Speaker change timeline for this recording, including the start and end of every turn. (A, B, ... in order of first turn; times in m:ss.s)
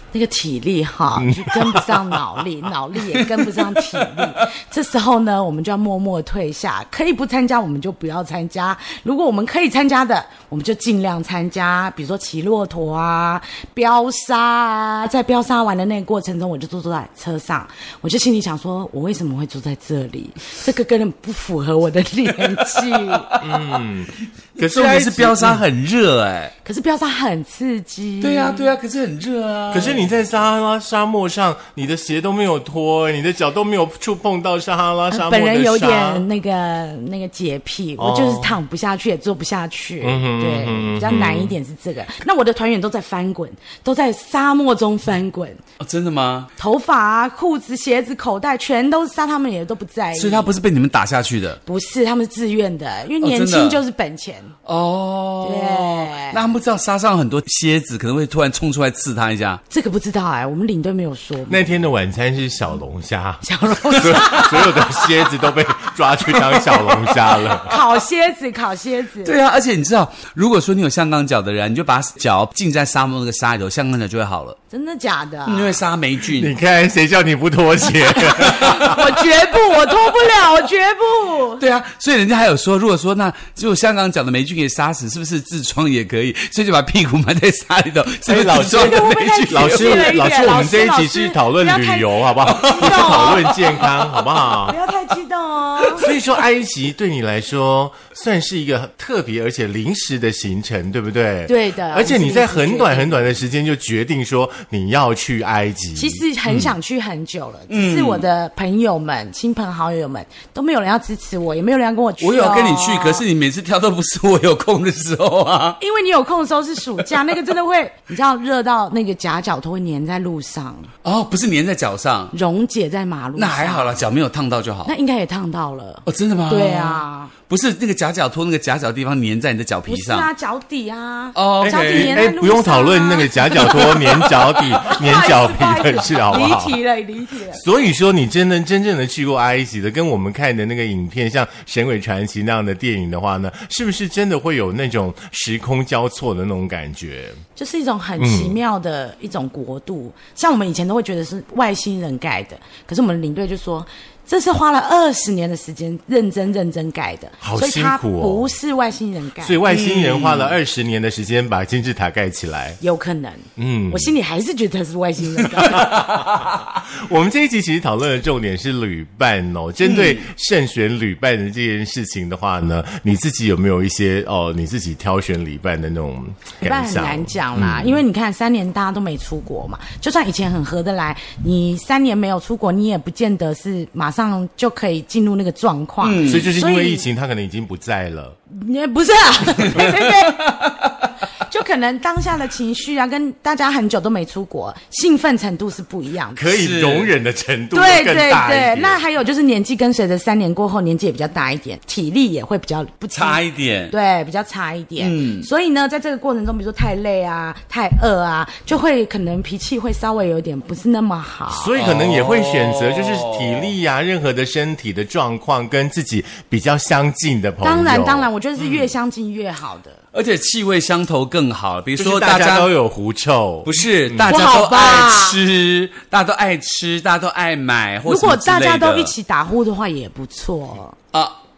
0:00.1-0:23.3 A
0:01.2-0:02.2 B
0:03.4-0:04.4 C
0:22.6-0:23.8 C
0:23.4-0:25.6 B
0:24.6-0:26.5 C
0:26.6-0:28.7 A
0:28.2-0:30.0 C
0:29.7-0:36.2 B
0:35.1-0:45.6 A
0:38.0-0:38.6 B
0:40.0-0:41.5 B
0:45.8-0:46.5 C
0:46.6-0:50.5 A
0:50.1-0:51.6 C
0:51.6-0:54.5 A
0:53.2-0:53.8 C
0:54.6-0:59.6 C
0:55.4-0:56.5 A
0:59.7-1:01.8 A
1:01.5-1:07.7 B
1:03.4-1:05.0 A
1:07.6-1:09.4 A
1:09.2-1:14.6 C
1:14.7-1:15.8 A
1:15.4-1:16.5 C
1:16.2-1:19.0 B
1:18.2-1:21.6 A
1:18.4-1:18.9 C
1:21.6-1:30.2 C
1:28.2-1:34.8 B
1:28.6-1:33.5 A
1:32.4-1:34.2 C
1:34.6-1:36.0 A
1:36.0-1:46.2 B
1:41.4-1:43.3 A
1:46.0-1:53.2 A
1:47.7-1:48.2 C
1:52.2-1:55.8 C
1:55.8-2:00.9 A
2:01.0-2:02.3 C
2:02.3-2:04.0 A
2:03.4-2:04.9 C
2:04.8-2:07.3 A
2:06.0-2:10.3 C
2:09.8-2:14.0 A
2:11.3-2:12.3 C
2:11.6-2:16.8 B
2:13.6-2:14.4 C
2:14.8-2:17.6 A
2:17.5-2:27.4 B
2:27.6-2:39.6 A
2:28.2-2:28.6 B
2:37.4-2:38.5 B
2:39.4-2:42.8 B
2:39.7-2:40.6 C
2:42.8-2:46.0 A
2:43.6-2:44.1 B
2:45.6-2:46.6 C
2:45.6-2:58.0 B
2:49.8-2:50.2 C
2:56.6-3:07.0 A
3:06.0-3:06.5 C
3:06.2-3:08.4 B
3:08.5-3:10.6 A
3:09.7-3:10.9 C
3:11.4-3:16.5 A
3:16.3-3:19.0 B
3:16.5-3:17.1 C
3:17.7-3:31.7 A
3:23.1-3:23.9 C
3:25.0-3:25.5 C
3:31.5-3:38.9 B
3:31.8-3:33.7 C
3:37.6-3:40.0 A
3:40.1-3:42.7 C
3:42.0-3:44.5 B
3:43.6-3:49.1 C
3:44.2-3:45.4 A
3:48.0-3:51.0 A